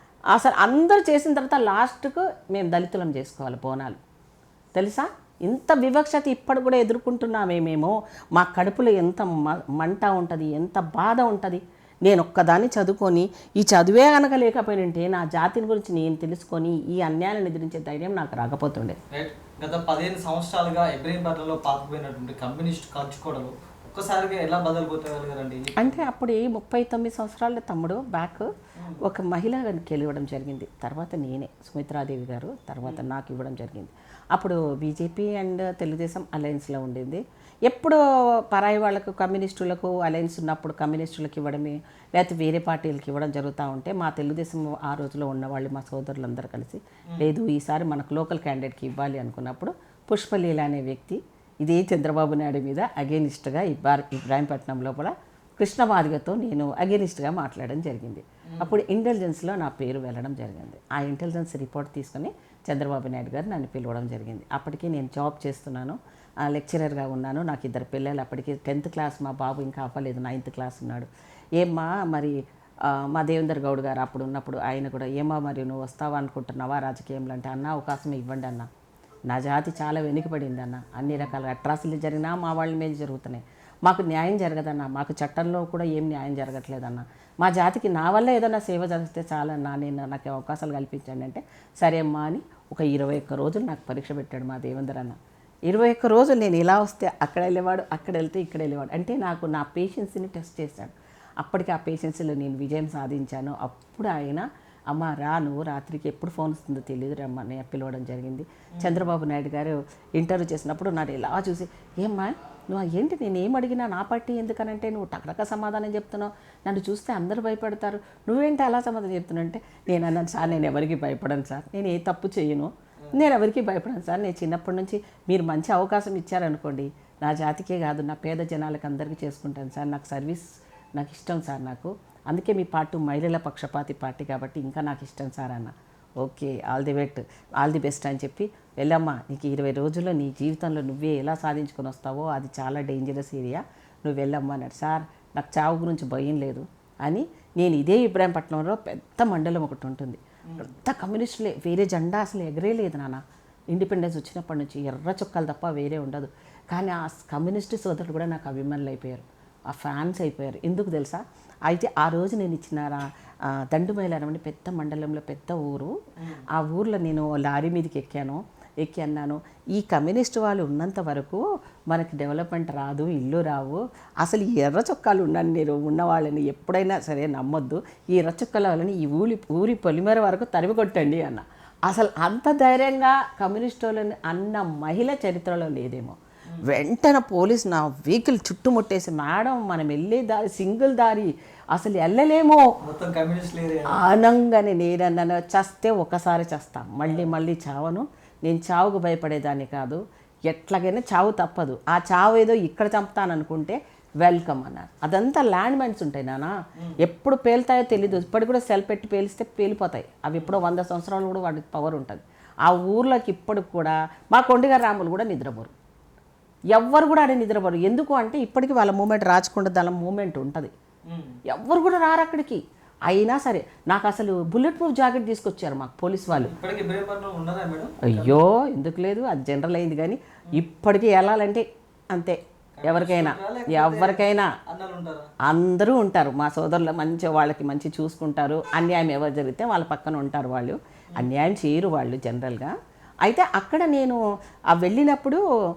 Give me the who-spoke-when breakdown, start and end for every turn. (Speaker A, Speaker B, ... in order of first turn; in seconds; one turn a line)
Speaker A: 0.3-4.0
Speaker A: 4.8-19.0
Speaker B: 19.1-26.1
Speaker A: 25.8-71.1
Speaker B: 28.8-29.0
Speaker B: 58.5-58.8
Speaker A: 71.6-78.7
Speaker A: 79.3-95.2
Speaker A: 95.7-130.4
Speaker B: 108.8-109.1
Speaker A: 131.0-165.9
Speaker B: 150.5-150.7
Speaker B: 166.2-166.5
Speaker A: 166.5-192.6
Speaker B: 192.8-194.0
Speaker A: 193.9-215.7
Speaker B: 197.0-197.3
Speaker B: 210.4-210.6
Speaker A: 216.7-220.7
Speaker B: 221.1-221.4
Speaker A: 221.5-226.5
Speaker B: 226.4-228.4
Speaker A: 228.0-234.5
Speaker B: 232.8-235.3
Speaker A: 235.5-244.2
Speaker A: 244.7-245.4